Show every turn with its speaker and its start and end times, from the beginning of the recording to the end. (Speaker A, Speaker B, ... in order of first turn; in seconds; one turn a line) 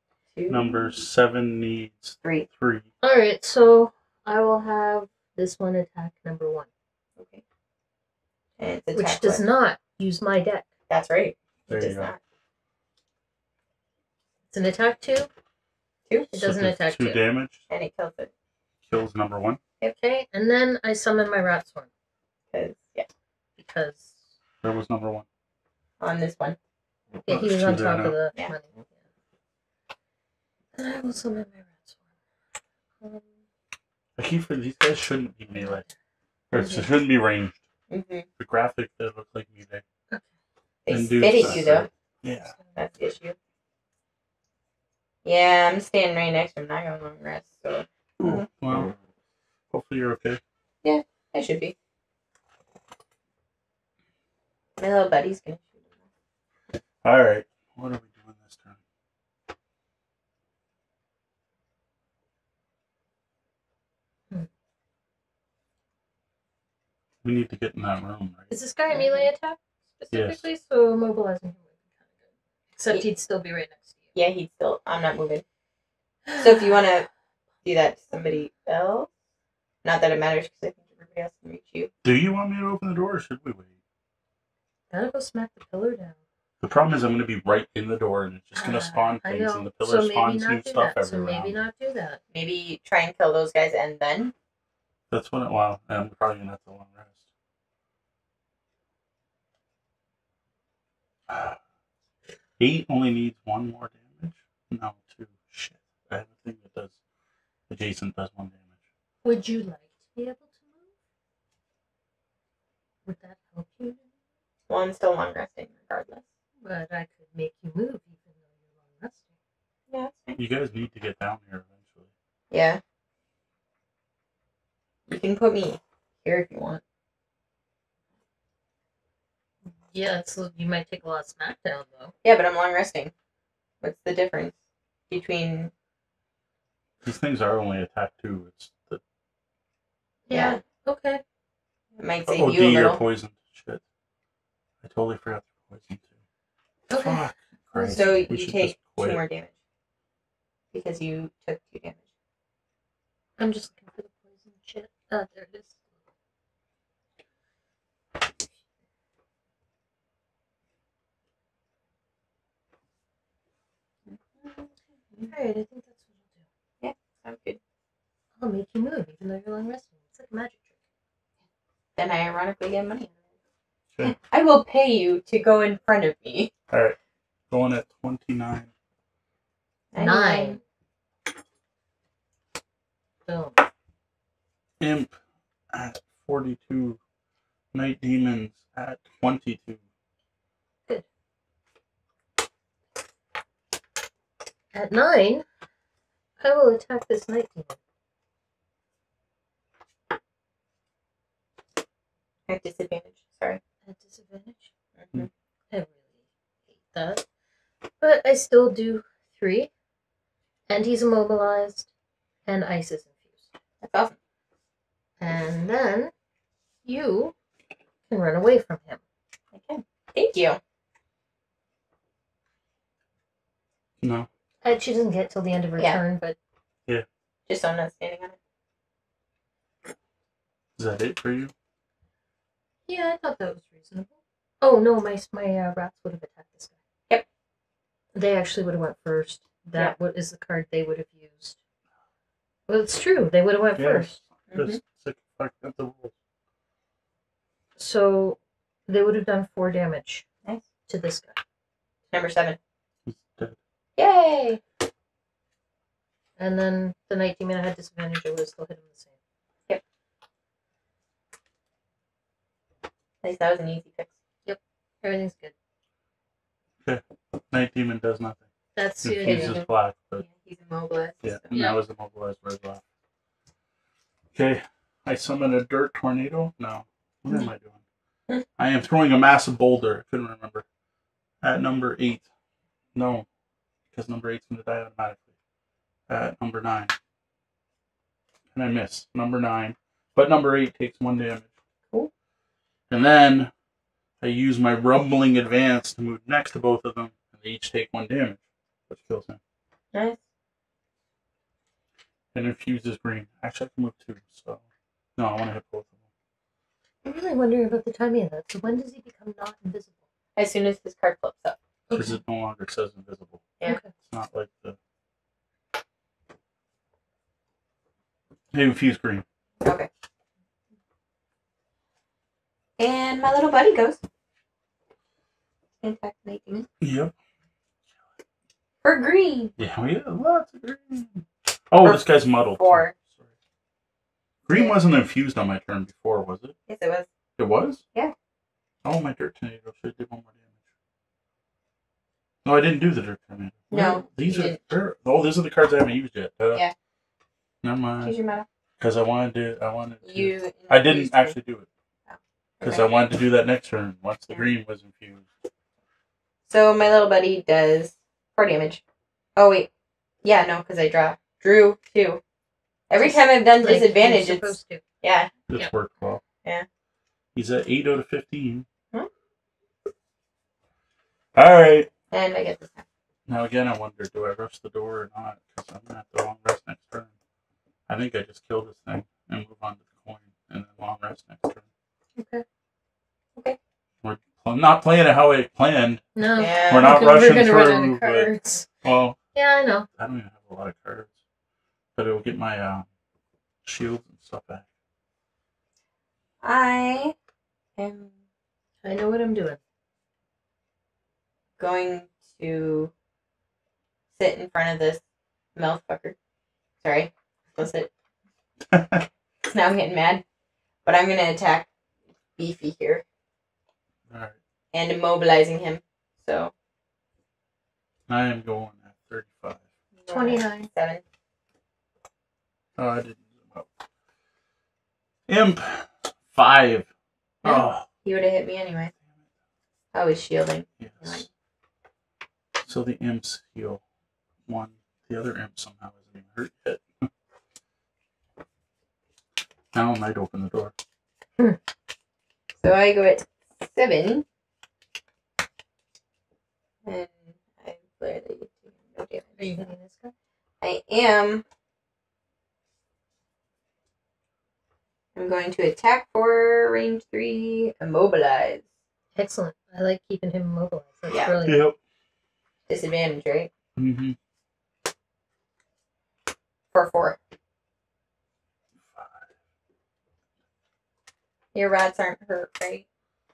Speaker A: 0.3-0.9
Speaker B: 0.5-2.9
Speaker C: 3.0-6.7
Speaker A: 7.2-7.4
Speaker A: 8.6-9.4
Speaker C: 8.9-10.7
Speaker A: 10.9-12.2
Speaker B: 11.7-12.1
Speaker C: 14.5-15.3
Speaker C: 16.3-17.2
Speaker B: 16.4-17.6
Speaker A: 17.7-18.3
Speaker B: 18.9-19.6
Speaker C: 20.0-21.9
Speaker A: 22.5-23.1
Speaker C: 23.6-24.2
Speaker B: 24.6-25.2
Speaker A: 26.0-26.6
Speaker C: 27.2-28.9
Speaker B: 27.3-28.1
Speaker C: 30.8-31.9
Speaker B: 34.2-35.8
Speaker C: 35.6-35.9
Speaker B: 36.5-37.6
Speaker A: 36.5-36.8
Speaker A: 37.9-38.3
Speaker B: 38.4-39.8
Speaker A: 40.9-41.9
Speaker B: 40.9-42.5
Speaker A: 42.7-43.4
Speaker A: 45.2-48.4
Speaker B: 48.2-48.9
Speaker B: 49.7-50.4
Speaker A: 50.8-51.7
Speaker A: 54.8-55.9
Speaker B: 57.0-58.8
Speaker B: 67.2-68.5
Speaker C: 68.5-71.7
Speaker A: 68.9-69.3
Speaker B: 70.1-70.4
Speaker C: 72.7-73.9
Speaker A: 74.1-75.4
Speaker C: 76.3-76.7
Speaker A: 76.4-77.1
Speaker A: 77.6-79.1
Speaker A: 79.8-81.9
Speaker B: 82.0-83.7
Speaker C: 84.9-86.2
Speaker B: 86.6-91.5
Speaker C: 88.5-92.2
Speaker A: 92.3-94.3
Speaker B: 95.1-97.2
Speaker B: 101.3-101.6
Speaker B: 102.6-107.0
Speaker B: 107.7-108.7
Speaker C: 109.2-110.8
Speaker C: 113.0-114.0
Speaker A: 114.7-116.2
Speaker C: 116.6-119.3
Speaker A: 119.9-120.4
Speaker B: 120.4-122.1
Speaker A: 122.5-122.8
Speaker A: 125.1-126.8
Speaker C: 129.9-132.1
Speaker A: 132.2-133.1
Speaker A: 133.8-134.5
Speaker A: 135.1-135.7
Speaker B: 137.0-139.0
Speaker C: 140.3-141.2
Speaker A: 140.3-140.6
Speaker A: 142.0-143.0
Speaker B: 142.3-143.8
Speaker B: 144.8-146.1
Speaker C: 146.9-148.2
Speaker B: 147.0-149.2
Speaker A: 147.9-149.5
Speaker A: 150.7-152.0
Speaker C: 153.4-155.8
Speaker A: 164.1-165.3
Speaker C: 165.3-166.3
Speaker A: 166.8-167.6
Speaker C: 168.4-170.7
Speaker A: 172.0-173.1
Speaker A: 174.0-176.5
Speaker B: 176.7-177.0
Speaker B: 177.5-178.7
Speaker A: 179.9-180.6
Speaker C: 180.0-180.6
Speaker C: 183.3-183.6
Speaker B: 184.8-185.1
Speaker B: 185.7-187.0
Speaker B: 187.7-189.8
Speaker C: 194.7-195.4
Speaker C: 196.4-197.8
Speaker A: 202.5-203.6
Speaker C: 203.8-204.7
Speaker A: 205.0-205.3
Speaker C: 205.7-206.0
Speaker C: 206.9-207.2
Speaker C: 208.0-209.7
Speaker C: 210.7-211.9
Speaker C: 212.4-213.5
Speaker A: 213.8-214.1
Speaker C: 215.2-216.1
Speaker C: 216.8-217.3
Speaker C: 218.1-219.0
Speaker A: 219.5-220.6
Speaker B: 224.0-224.3
Speaker C: 224.6-226.3
Speaker A: 227.5-228.3
Speaker B: 230.8-231.5
Speaker C: 232.9-236.7
Speaker C: 238.1-241.6
Speaker C: 242.7-244.2
Speaker B: 243.8-246.1
Speaker A: 244.5-244.8
Speaker C: 247.8-250.2
Speaker C: 250.9-251.4
Speaker A: 252.1-252.6
Speaker B: 253.0-253.6
Speaker A: 253.9-254.6
Speaker C: 256.4-259.1
Speaker A: 263.2-264.1
Speaker C: 264.4-265.5
Speaker B: 266.8-268.5
Speaker C: 268.7-269.6
Speaker B: 269.0-270.2
Speaker A: 269.2-269.6
Speaker A: 270.2-271.5
Speaker B: 271.2-272.8
Speaker C: 271.5-271.8
Speaker B: 274.3-277.8
Speaker B: 278.6-280.6
Speaker B: 281.4-282.3
Speaker B: 282.9-283.2
Speaker B: 283.9-285.2
Speaker B: 286.1-286.9
Speaker B: 288.5-291.5
Speaker B: 292.9-293.5
Speaker B: 294.2-299.4
Speaker B: 302.3-304.6
Speaker B: 305.1-306.0
Speaker C: 307.0-309.9
Speaker A: 310.4-311.6
Speaker C: 311.9-312.2
Speaker B: 311.9-313.5
Speaker C: 313.6-313.9
Speaker B: 314.0-314.8
Speaker B: 318.5-319.2
Speaker A: 319.6-319.9
Speaker A: 322.8-324.0
Speaker A: 325.8-326.7
Speaker B: 326.8-327.1
Speaker A: 328.8-329.5
Speaker B: 329.6-333.2
Speaker A: 332.6-332.9
Speaker B: 334.4-336.5
Speaker A: 336.7-337.1
Speaker B: 337.4-337.8
Speaker B: 338.8-340.5
Speaker B: 342.4-346.6
Speaker A: 343.7-344.6
Speaker B: 347.6-348.1
Speaker A: 348.0-348.4
Speaker B: 348.8-351.7
Speaker A: 350.0-351.4
Speaker A: 352.1-352.9
Speaker B: 352.6-355.2
Speaker A: 356.5-358.8
Speaker A: 359.4-359.7
Speaker A: 360.2-362.2
Speaker A: 362.9-365.3
Speaker C: 363.0-364.8
Speaker B: 365.5-366.2
Speaker B: 367.3-368.6
Speaker B: 371.3-371.9
Speaker A: 372.1-372.8
Speaker B: 373.3-377.1
Speaker B: 377.9-381.6
Speaker C: 382.2-382.4
Speaker B: 384.0-386.0
Speaker C: 386.1-388.7
Speaker A: 386.4-387.0
Speaker B: 386.6-388.3
Speaker B: 388.8-389.2
Speaker C: 389.3-389.9
Speaker B: 390.0-391.1
Speaker B: 391.9-392.9
Speaker B: 393.6-394.6
Speaker A: 396.4-397.1
Speaker A: 397.8-398.1
Speaker C: 398.8-399.6
Speaker A: 401.6-402.9
Speaker A: 404.1-405.0
Speaker A: 405.6-406.1
Speaker A: 406.8-407.9
Speaker B: 408.7-409.1
Speaker A: 409.4-410.2
Speaker A: 410.8-411.7
Speaker A: 412.4-413.0
Speaker B: 414.1-414.4
Speaker A: 414.7-416.5
Speaker B: 418.1-419.6
Speaker A: 420.0-421.0
Speaker C: 420.1-420.7
Speaker B: 422.8-423.7
Speaker B: 425.3-426.9
Speaker A: 427.4-428.9
Speaker B: 427.4-427.9
Speaker A: 429.9-431.2
Speaker B: 430.8-431.2
Speaker B: 432.6-433.8
Speaker B: 434.5-437.1
Speaker B: 439.7-440.7
Speaker A: 442.6-444.2
Speaker A: 446.8-449.7
Speaker C: 449.4-450.1
Speaker A: 450.6-451.4
Speaker A: 455.1-458.6
Speaker C: 459.1-461.6
Speaker B: 461.4-461.8
Speaker A: 462.7-463.5
Speaker B: 463.8-464.2
Speaker A: 466.7-467.2
Speaker B: 468.9-469.2
Speaker A: 471.5-472.8